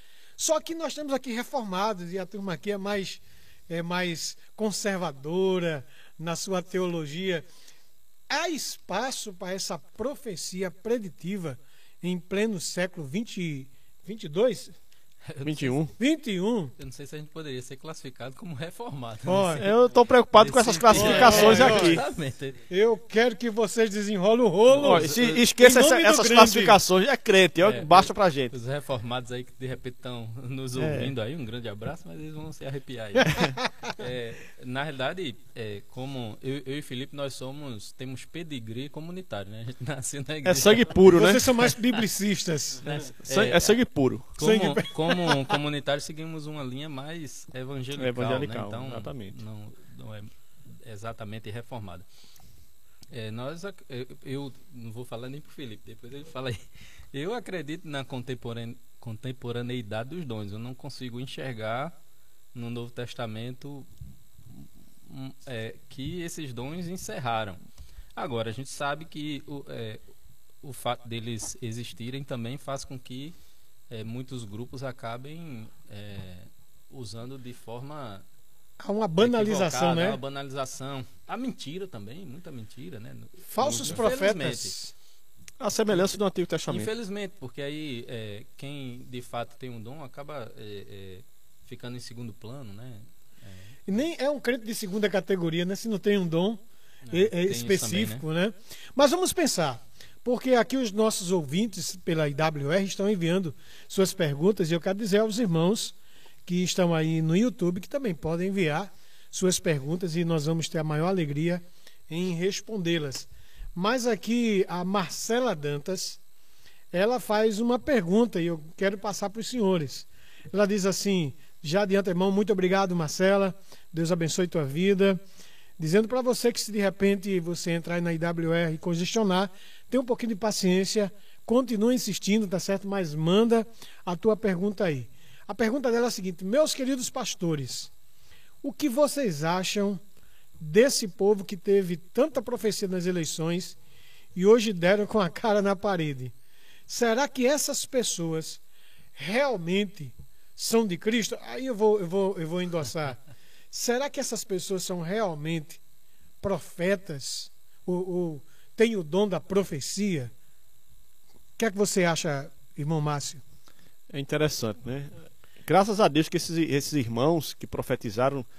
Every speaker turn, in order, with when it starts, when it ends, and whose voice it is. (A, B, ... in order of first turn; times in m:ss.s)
0:00.4-0:07.4 A
0:08.3-0:14.7 A
0:15.2-0:15.8 B
0:15.4-0:15.9 C
0:16.0-0:16.7 A
0:16.8-0:19.7 B
0:19.2-0:19.7 A
0:19.6-0:22.0 C
0:20.4-0:22.6 B
0:20.9-0:22.0 A
0:22.7-0:26.8 A
0:24.7-0:25.4 B
0:24.8-0:28.5 C
0:27.6-0:41.0 B
0:30.8-0:31.1 C
0:40.4-0:41.7 C
0:41.1-0:43.0 A
0:42.8-0:43.8 B
0:43.2-0:44.3 C
0:44.4-0:52.0 B
0:44.4-0:45.5 A
0:48.0-0:49.4 C
0:53.1-0:56.6 B
0:57.1-1:01.9 B
1:02.5-1:03.9 B
1:04.5-1:07.6 B
1:08.2-1:10.0 B
1:10.6-1:13.4 B
1:13.9-1:18.2 B
1:18.8-1:20.2 A
1:19.2-1:24.7 B
1:23.5-1:24.9 A
1:25.6-1:26.9 C
1:26.7-1:33.8 B
1:33.9-1:45.9 A
1:37.0-1:38.2 B
1:46.4-1:56.2 A
1:56.9-2:05.2 A
2:05.8-2:17.9 A
2:18.6-2:20.0 A
2:20.6-2:23.8 A
2:24.4-2:26.3 A
2:26.9-2:28.6 A
2:29.2-2:33.2 A
2:33.7-2:35.8 A
2:36.4-2:40.3 A
2:41.6-2:43.4 A
2:44.1-2:48.4 C